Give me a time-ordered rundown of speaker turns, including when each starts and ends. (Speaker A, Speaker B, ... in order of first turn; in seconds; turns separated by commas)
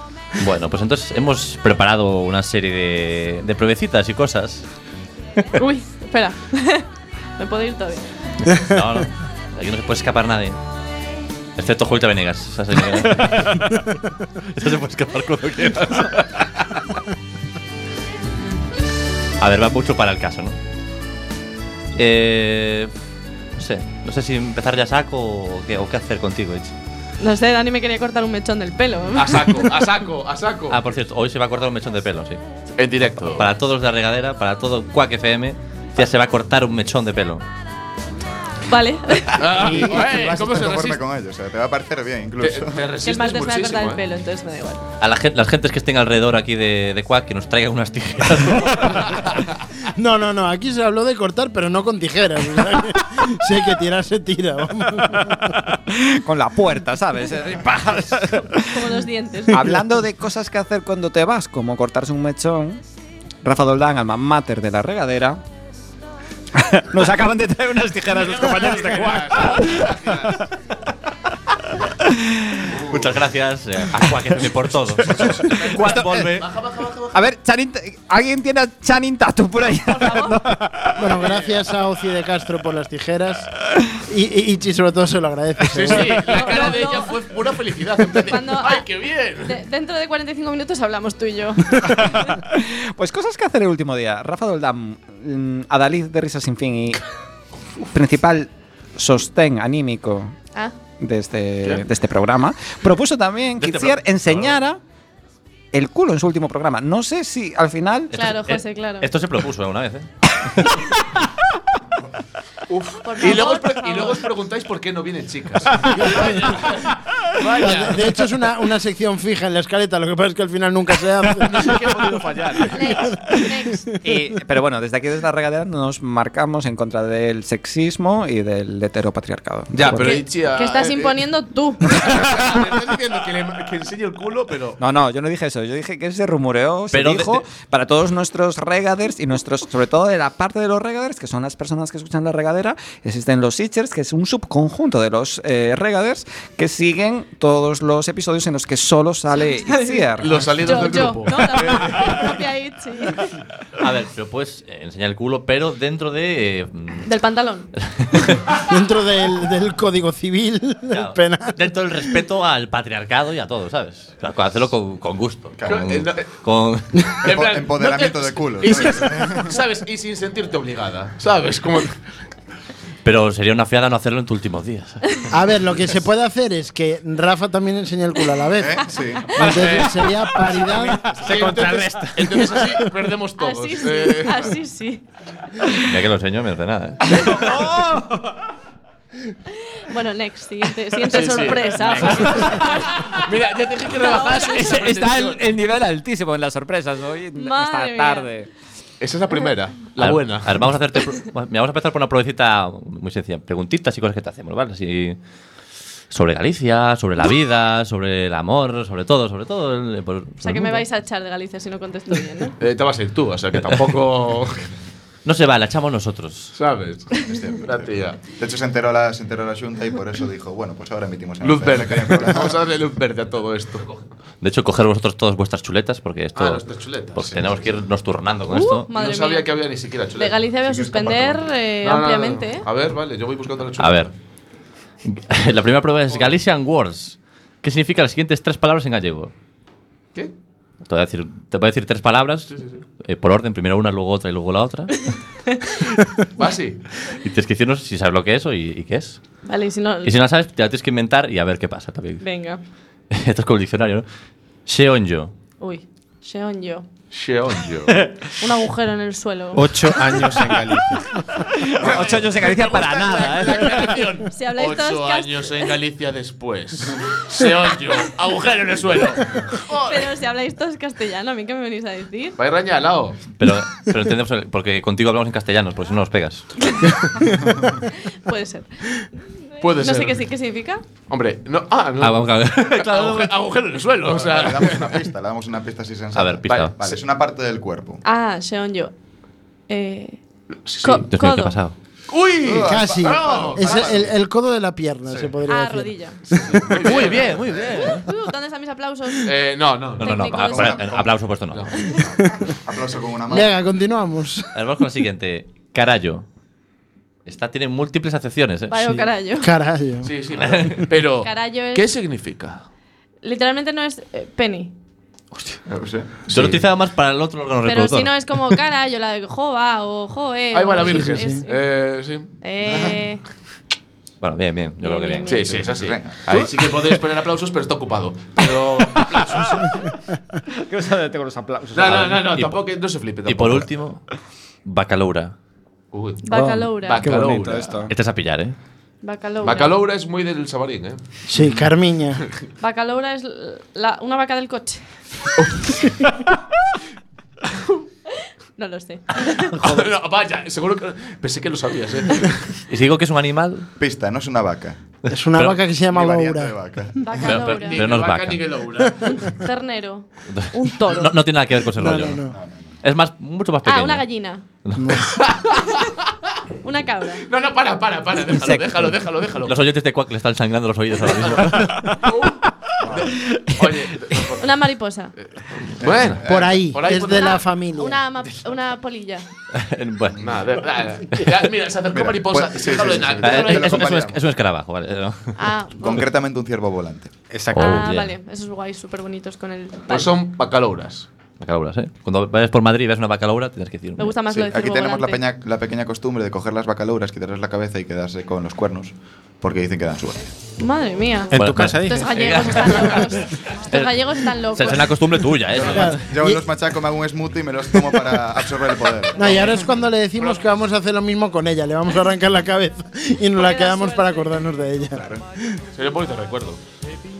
Speaker A: 0.4-4.6, Speaker B: 5.5-8.1, Speaker A: 8.5-10.6, Speaker A: 11.6-13.9, Speaker A: 14.5-16.4, Speaker A: 19.4-20.6, Speaker A: 21.9-22.9, Speaker A: 23.6-26.7, Speaker B: 27.2-29.6, Speaker C: 29.1-30.8, Speaker A: 30.7-32.4, Speaker C: 32.8-33.5, Speaker A: 33.4-37.4, Speaker B: 38.7-39.5, Speaker C: 39.4-41.0, Speaker D: 39.5-42.9, Speaker C: 42.4-44.0, Speaker B: 43.0-44.8, Speaker A: 45.0-49.3, Speaker C: 49.0-49.4, Speaker E: 49.9-55.7, Speaker F: 55.9-62.8, Speaker B: 58.5-59.8, Speaker F: 63.4-65.4, Speaker F: 66.5-70.3, Speaker C: 68.1-70.4, Speaker F: 72.2-72.6, Speaker A: 72.9-76.4, Speaker F: 75.1-76.4, Speaker C: 75.2-77.2, Speaker F: 77.1-81.0, Speaker B: 79.8-80.4, Speaker E: 81.0-86.4, Speaker C: 81.0-81.7, Speaker C: 85.7-89.6, Speaker B: 86.2-87.2, Speaker B: 88.2-88.9, Speaker B: 89.4-92.4, Speaker F: 92.2-97.0, Speaker F: 97.9-100.3, Speaker F: 101.0-104.8, Speaker C: 103.6-103.9, Speaker F: 105.7-108.1, Speaker A: 108.1-110.1, Speaker B: 108.1-109.1, Speaker C: 112.7-118.2, Speaker B: 113.0-114.2, Speaker E: 115.9-116.5, Speaker E: 117.5-122.1, Speaker C: 121.4-123.0, Speaker B: 122.7-123.9, Speaker E: 123.1-123.9, Speaker F: 124.0-130.2, Speaker C: 129.7-131.2, Speaker B: 130.0-131.9, Speaker C: 131.8-134.8, Speaker F: 134.8-150.6, Speaker A: 136.9-137.4, Speaker B: 149.7-150.0, Speaker C: 150.2-152.3, Speaker B: 150.6-153.3, Speaker A: 153.8-157.1, Speaker B: 157.0-157.7, Speaker A: 157.8-158.5, Speaker E: 158.7-161.6, Speaker A: 160.9-167.0, Speaker D: 165.6-165.9, Speaker C: 165.7-166.2, Speaker D: 167.2-169.6, Speaker C: 167.2-172.0, Speaker A: 173.0-175.3, Speaker E: 175.3-181.1, Speaker D: 178.6-179.7, Speaker C: 179.4-180.0, Speaker G: 180.8-182.4, Speaker C: 180.9-184.5, Speaker E: 182.6-182.9, Speaker B: 183.4-185.0, Speaker A: 185.8-187.1, Speaker F: 187.1-188.3, Speaker B: 189.7-193.2, Speaker C: 191.1-195.4, Speaker F: 191.9-192.8, Speaker B: 193.9-194.8, Speaker F: 194.5-198.5, Speaker B: 197.3-198.3, Speaker C: 199.0-200.6, Speaker A: 200.0-205.2, Speaker A: 206.1-210.8, Speaker B: 210.4-212.5, Speaker C: 212.6-214.7, Speaker A: 215.2-216.5, Speaker C: 216.5-218.2, Speaker D: 217.1-222.6, Speaker C: 221.4-223.9, Speaker A: 224.4-226.6, Speaker C: 226.3-227.3, Speaker A: 227.1-228.9, Speaker D: 227.3-227.7, Speaker B: 228.5-229.5, Speaker C: 228.9-230.4, Speaker B: 230.2-232.7, Speaker D: 230.6-231.5, Speaker C: 231.8-234.1, Speaker A: 233.8-234.1, Speaker A: 235.1-239.3, Speaker A: 240.8-245.1, Speaker C: 242.5-242.8, Speaker B: 245.5-245.7, Speaker C: 246.3-246.8, Speaker A: 247.1-249.2, Speaker B: 249.4-250.1, Speaker A: 250.0-252.2, Speaker B: 252.2-252.6, Speaker A: 253.1-254.1, Speaker A: 254.7-255.3, Speaker B: 255.6-256.9, Speaker C: 257.1-258.0, Speaker B: 258.4-260.2, Speaker G: 259.5-261.1, Speaker F: 261.5-264.1, Speaker C: 261.8-270.1, Speaker B: 264.3-265.7, Speaker B: 269.7-272.4, Speaker C: 272.4-273.2, Speaker A: 273.4-276.5, Speaker B: 276.6-277.0, Speaker E: 276.9-277.7, Speaker B: 277.9-280.8, Speaker C: 279.6-280.2, Speaker C: 281.1-285.0, Speaker A: 282.0-283.3, Speaker D: 284.1-288.0, Speaker A: 286.1-286.7, Speaker C: 286.5-287.0, Speaker B: 288.0-288.9, Speaker B: 289.7-290.2, Speaker C: 290.6-291.0, Speaker B: 290.8-291.5, Speaker A: 291.1-291.8, Speaker C: 292.1-293.9, Speaker D: 292.4-294.2, Speaker E: 292.6-296.6, Speaker B: 295.4-296.2, Speaker C: 296.3-297.5, Speaker A: 296.8-298.1, Speaker B: 296.9-299.3, Speaker C: 299.2-300.2, Speaker B: 299.9-300.8, Speaker A: 300.0-301.7, Speaker D: 300.2-301.1, Speaker C: 301.5-302.1, Speaker E: 302.2-302.5, Speaker D: 302.6-303.5, Speaker E: 303.3-304.5, Speaker A: 304.5-306.2, Speaker A: 307.2-308.9, Speaker B: 308.7-309.5, Speaker E: 308.9-310.1, Speaker C: 310.0-312.6, Speaker A: 310.4-310.8, Speaker B: 311.2-311.9, Speaker B: 313.2-314.7, Speaker D: 315.7-316.1, Speaker C: 316.3-316.6, Speaker A: 316.3-318.1, Speaker B: 317.6-321.6, Speaker C: 320.5-322.3, Speaker E: 320.9-321.4, Speaker B: 322.4-323.2, Speaker A: 324.2-325.3, Speaker B: 324.8-325.4, Speaker C: 325.2-329.8, Speaker D: 325.4-326.4, Speaker F: 330.5-332.4, Speaker C: 331.7-333.7, Speaker A: 333.2-334.0, Speaker A: 334.6-335.3, Speaker C: 335.9-336.2, Speaker B: 336.2-337.0, Speaker F: 336.3-337.9, Speaker C: 336.8-337.8, Speaker A: 337.9-338.5, Speaker B: 339.0-339.8, Speaker C: 339.4-341.0, Speaker E: 341.3-342.2, Speaker B: 342.6-344.8, Speaker B: 348.6-349.6, Speaker C: 349.6-352.5, Speaker A: 352.7-353.7, Speaker D: 353.8-354.8, Speaker E: 355.1-356.6, Speaker A: 355.3-355.6, Speaker D: 355.9-357.0, Speaker B: 357.0-357.9, Speaker A: 357.2-358.4, Speaker C: 357.3-359.1, Speaker B: 359.0-361.1, Speaker A: 360.3-362.2, Speaker E: 361.7-362.4, Speaker D: 362.3-362.7, Speaker A: 362.8-364.1, Speaker B: 363.6-364.4, Speaker A: 364.6-365.0, Speaker E: 364.8-365.1, Speaker C: 365.1-365.9, Speaker B: 366.6-367.2, Speaker C: 367.3-369.6, Speaker F: 368.3-368.9, Speaker A: 369.4-371.9, Speaker C: 371.2-374.5, Speaker D: 372.8-373.1, Speaker B: 374.4-375.1, Speaker C: 375.8-377.4, Speaker D: 375.8-376.7, Speaker E: 376.2-378.0, Speaker B: 377.0-379.2, Speaker A: 379.5-380.2, Speaker D: 380.1-380.4, Speaker C: 380.2-383.8, Speaker D: 381.9-384.2, Speaker A: 383.2-385.3, Speaker B: 385.4-386.1, Speaker D: 385.8-387.1, Speaker G: 387.3-387.8, Speaker A: 387.5-388.1, Speaker B: 387.5-390.1, Speaker C: 389.9-391.1, Speaker A: 391.4-394.1, Speaker B: 394.0-395.2, Speaker D: 394.3-400.2, Speaker B: 400.6-404.9, Speaker G: 401.3-402.1, Speaker A: 401.3-403.1, Speaker A: 403.7-406.0, Speaker D: 405.5-409.6, Speaker E: 405.6-406.4, Speaker E: 409.1-415.1, Speaker C: 410.2-410.5, Speaker B: 413.3-414.5, Speaker D: 414.9-415.2, Speaker C: 415.7-416.6